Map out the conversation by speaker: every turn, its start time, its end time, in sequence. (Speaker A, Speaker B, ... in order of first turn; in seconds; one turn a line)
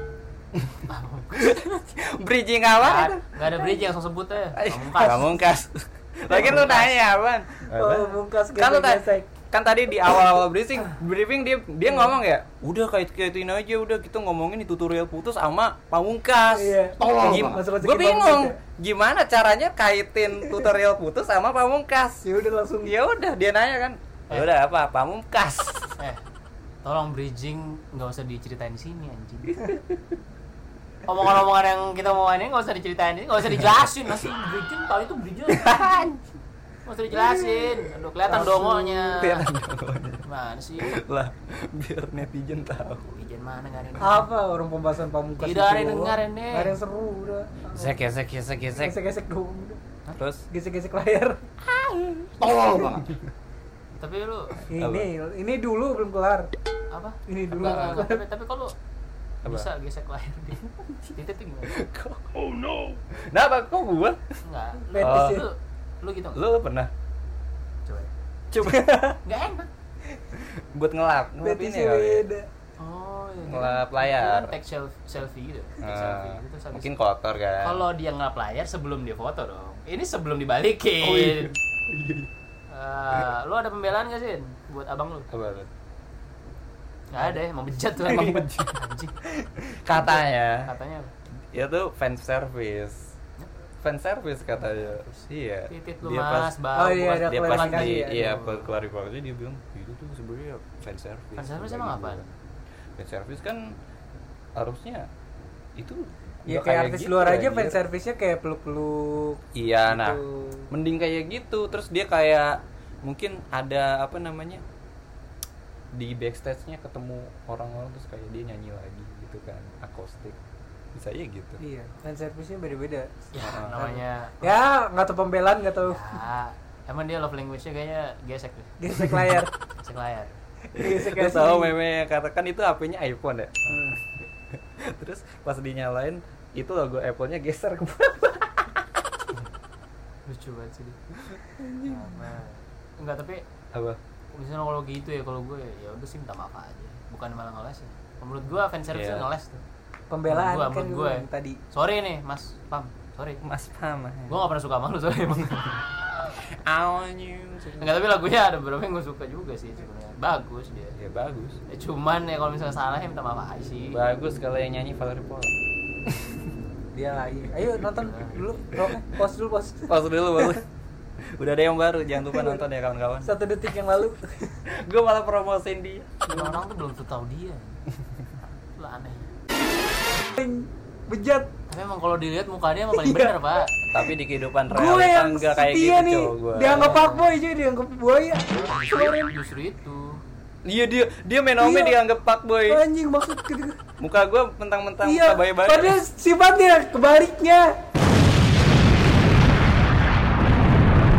Speaker A: 0.5-3.6
Speaker B: 0.9-1.6
Speaker B: 2.8-5.4
Speaker A: 4.5-22.2
Speaker C: 6.3-6.8
Speaker B: 6.3-7.0
Speaker C: 7.6-9.3
Speaker C: 16.5-18.6
Speaker C: 22.2-22.9
Speaker A: 22.8-25.9
Speaker B: 26.8-29.7
Speaker B: 31.1-35.9
Speaker A: 35.5-36.2
Speaker B: 36.8-39.5
Speaker A: 37.1-37.8
Speaker C: 38.3-39.0
Speaker A: 39.0-40.2
Speaker B: 40.2-41.0
Speaker A: 40.8-43.0
Speaker B: 43.0-44.2
Speaker C: 44.0-47.9
Speaker B: 45.4-46.8
Speaker A: 47.7-49.0
Speaker C: 48.8-49.8
Speaker A: 50.1-50.5
Speaker C: 50.5-51.4
Speaker A: 51.6-53.2
Speaker B: 54.0-54.6
Speaker C: 54.7-56.5
Speaker A: 54.7-55.1
Speaker B: 56.9-58.7
Speaker C: 57.3-58.2
Speaker A: 59.4-59.7
Speaker B: 59.4-60.6
Speaker B: 61.1-61.8
Speaker A: 61.7-62.5
Speaker A: 63.1-64.3
Speaker B: 64.4-66.4
Speaker C: 64.9-65.5
Speaker A: 65.0-65.5
Speaker A: 66.3-66.9
Speaker B: 67.8-68.1
Speaker A: 68.5-69.1
Speaker C: 68.6-69.2
Speaker B: 69.2-69.7
Speaker A: 70.3-72.3
Speaker C: 71.4-72.5
Speaker B: 72.8-76.9
Speaker A: 73.4-74.5
Speaker A: 75.8-77.8
Speaker B: 77.6-81.5
Speaker A: 81.0-82.3
Speaker B: 82.7-85.3
Speaker A: 85.3-85.7
Speaker B: 87.1-89.2
Speaker A: 88.0-88.8
Speaker A: 89.6-90.7
Speaker B: 89.9-91.1
Speaker A: 91.5-93.1
Speaker A: 93.8-96.6
Speaker B: 94.7-95.1
Speaker B: 95.7-98.7
Speaker C: 96.7-98.4
Speaker A: 97.2-102.3
Speaker B: 101.4-102.2
Speaker A: 103.0-103.7
Speaker A: 104.5-105.1
Speaker A: 105.8-107.8
Speaker C: 106.5-110.7
Speaker A: 109.5-114.6
Speaker A: 115.9-120.4
Speaker A: 120.9-121.6
Speaker C: 121.6-123.1
Speaker B: 123.3-124.5
Speaker A: 123.4-123.8
Speaker C: 123.7-126.2
Speaker B: 125.8-130.4
Speaker C: 128.8-129.5
Speaker C: 130.7-131.7
Speaker A: 130.7-133.6
Speaker C: 133.7-134.0
Speaker A: 134.6-138.9
Speaker B: 140.2-141.0
Speaker A: 141.6-142.1
Speaker B: 141.8-143.4
Speaker A: 143.7-144.0
Speaker B: 144.3-149.6
Speaker A: 148.9-149.3
Speaker C: 150.1-151.6
Speaker B: 150.3-153.4
Speaker A: 153.4-154.4
Speaker B: 154.3-155.8
Speaker A: 156.3-158.0
Speaker B: 157.8-161.0
Speaker A: 161.0-161.6
Speaker B: 161.7-164.0
Speaker A: 163.9-165.5
Speaker A: 166.1-166.4
Speaker C: 166.9-170.6
Speaker B: 167.9-168.6
Speaker A: 169.9-170.6
Speaker A: 171.2-173.3
Speaker C: 172.2-172.6
Speaker C: 173.2-174.6
Speaker A: 174.7-176.2
Speaker B: 176.3-177.8
Speaker C: 176.3-176.6
Speaker B: 178.7-179.3
Speaker C: 180.3-181.5
Speaker B: 181.7-183.7
Speaker C: 182.9-183.5
Speaker A: 183.9-187.0
Speaker C: 184.7-189.3
Speaker B: 186.6-187.3
Speaker B: 188.5-190.2
Speaker A: 190.6-192.8
Speaker C: 191.6-192.0
Speaker C: 192.7-193.8
Speaker A: 194.0-196.0
Speaker C: 195.0-197.7